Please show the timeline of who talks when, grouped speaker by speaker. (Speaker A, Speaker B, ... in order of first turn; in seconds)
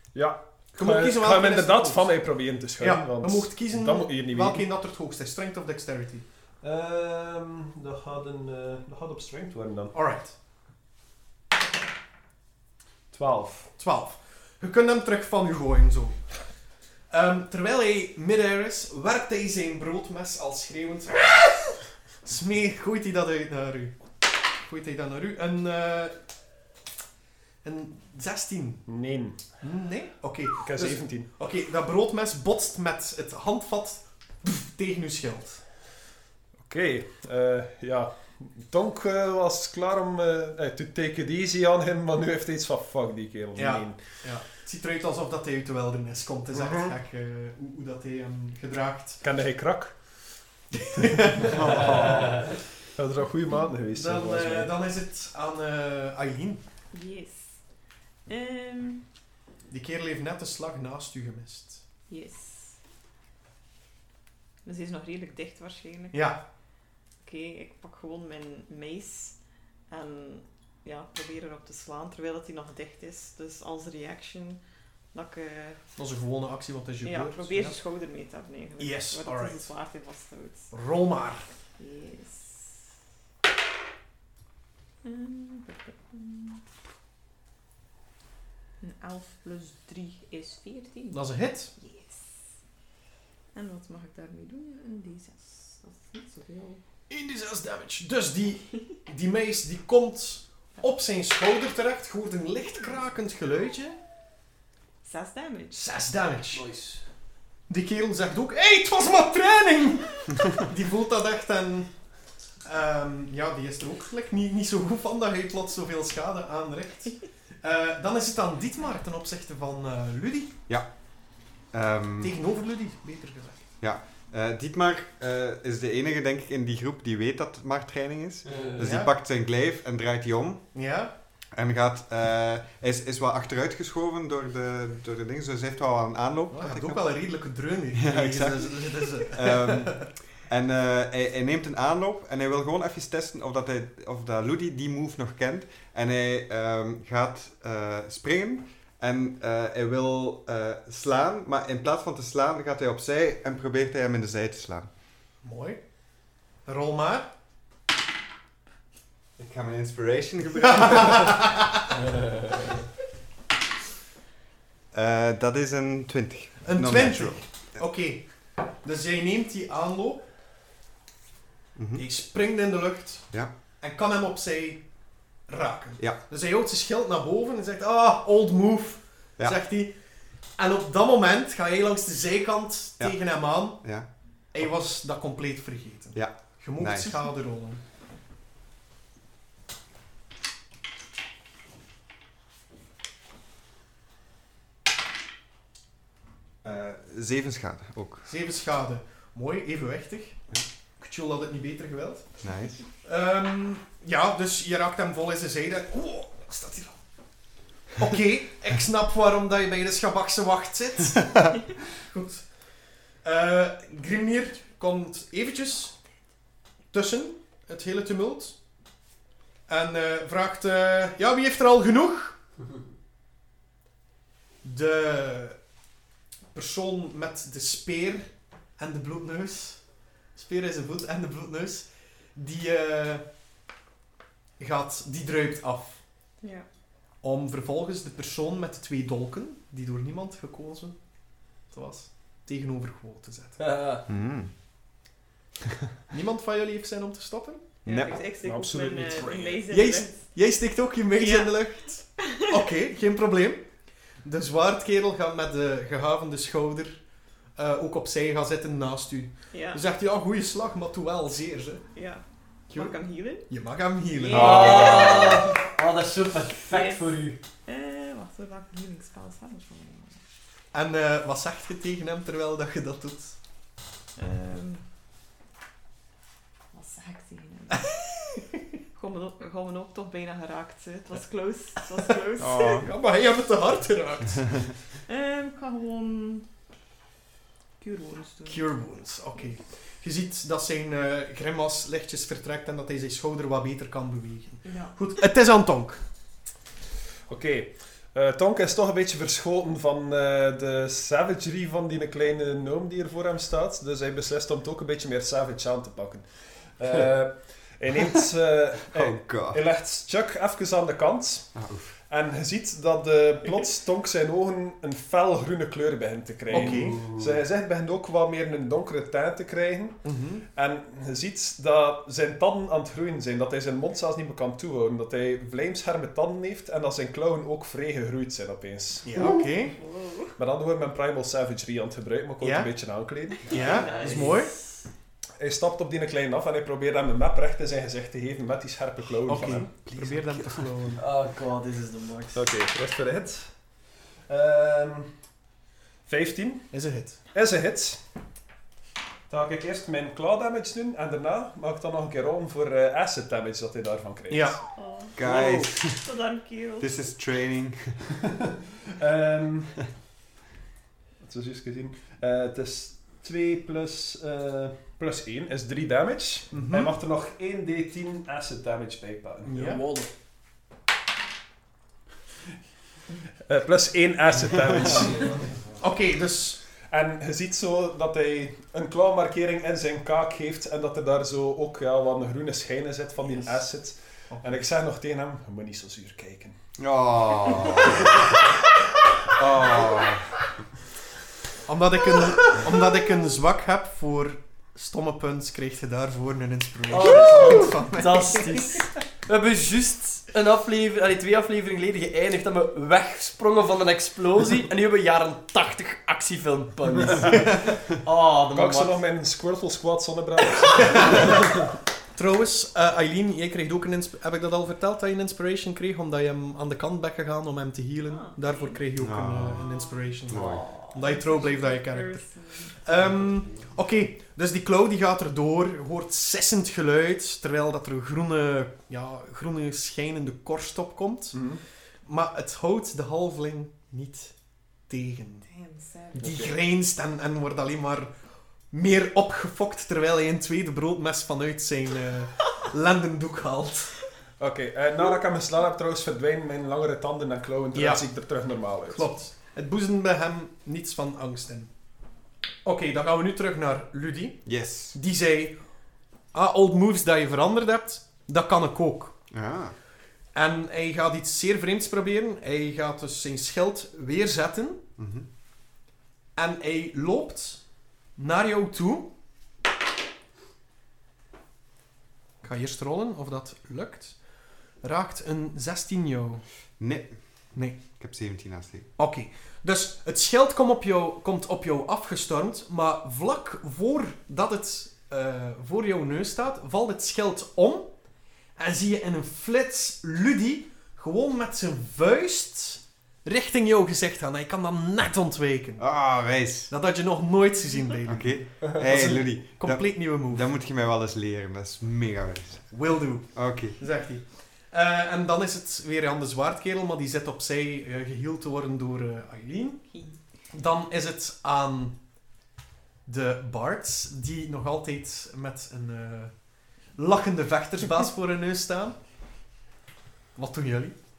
Speaker A: 0.1-4.7, 6.6-9.9, 13.1-13.7, 28.9-29.4, 30.6-31.3, 36.6-44.2, 46.6-46.9, 49.2-50.0, 53.0-54.7, 248.4-249.6, 297.3-329.4, 330.4-333.6, 335.4-340.7, 342.3-343.5, 344.3-345.1, 346.1-346.7, 347.3-348.0, 349.3-354.6, 358.9-359.8, 361.2-369.8, 373.4-375.5, 376.9-386.6, 408.5-411.7, 431.3-431.6, 444.4-449.1
Speaker B: 0.8-6.3, 9.9-10.3, 13.8-16.3, 17.1-26.2, 27.6-28.9, 29.6-35.6, 43.6-49.2, 51.0-52.4, 53.9-56.6, 59.7-61.8, 66.1-66.4, 76.0-77.8, 78.8-79.7, 80.7-81.5, 91.1-91.7, 97.1-104.0, 105.7-106.6, 107.7-111.9, 112.6-120.5, 122.2-123.7, 128.8-129.1, 130.8-131.1, 136.5-140.1, 155.4-155.8, 156.7-157.3, 160.7-161.6, 166.6-170.3, 172.0-174.9, 175.5-180.0, 180.5-187.8, 198.3-200.4, 201.0-202.3, 203.0-207.0, 208.0-212.7, 213.2-216.0, 216.9-218.6, 219.7-222.4, 224.6-225.6, 226.5-229.8, 230.3-233.2, 234.6-236.0, 237.2-241.0, 241.7-243.6, 246.1-247.8, 249.7-253.7, 254.2-257.0, 257.6-261.9, 263.5-265.4, 270.7-273.4, 282.4-284.6, 288.5-296.0, 316.5-317.1, 320.0-320.4, 329.1-329.8, 332.4-332.7, 333.5-334.5, 339.3-341.0, 346.7-347.2, 354.3-354.7, 366.5-366.9, 369.5-369.8, 375.8-376.6, 384.3-384.6, 391.7-398.6, 410.8-411.6, 412.1-431.5, 432.1-434.4, 434.9-435.5, 436.1-438.1, 438.7-444.0, 447.8-448.1, 448.9-451.7, 452.6-455.6, 456.3-459.1, 460.3-464.8, 466.4-467.6, 468.2-469.1, 472.4-474.2, 474.8-476.4, 479.0-487.9, 488.6-496.0, 496.7-500.5, 502.7-509.9, 510.5-512.0, 513.1-516.4, 516.9-519.0, 520.4-521.0
Speaker C: 51.4-52.4, 120.7-122.3, 123.8-130.7, 131.5-137.0, 137.9-154.9, 159.4-161.5, 164.9-167.8, 171.8-172.1, 183.0-184.1, 184.6-184.9, 186.1-187.2, 196.6-198.3, 202.4-202.8, 244.1-244.5, 247.9-248.1, 282.5-282.9, 308.9-309.6, 311.6-311.9, 355.2-356.1, 356.8-358.0, 386.8-388.3, 389.3-390.2, 419.0-420.6, 454.5-455.0, 459.3-459.8, 465.0-465.3, 476.8-477.2, 477.8-478.9, 495.8-496.7, 498.1-502.7, 503.3-503.8
Speaker D: 56.9-57.6, 58.3-59.1, 62.1-62.8, 64.7-66.4, 67.2-69.4, 69.9-74.6, 75.1-75.8, 77.0-80.7, 81.8-82.8, 85.0-86.6, 88.8-91.2, 91.8-92.3, 93.5-96.8, 105.0-105.8, 236.4-236.7, 247.9-250.3, 251.2-252.6, 259.5-259.8, 261.9-263.5, 264.1-265.5, 266.7-270.2, 274.2-274.8, 276.7-278.4, 278.9-282.9, 285.1-286.5, 287.8-288.7, 294.6-294.9, 329.3-330.3, 333.5-334.5, 354.7-357.1, 418.1-418.9, 419.6-420.2, 420.9-423.1, 435.5-436.4
Speaker E: 106.5-107.0, 128.5-128.9, 243.6-244.0, 264.3-267.4, 333.7-334.6, 341.0-342.4, 355.3-355.5, 369.6-370.1, 396.9-409.0, 420.3-420.9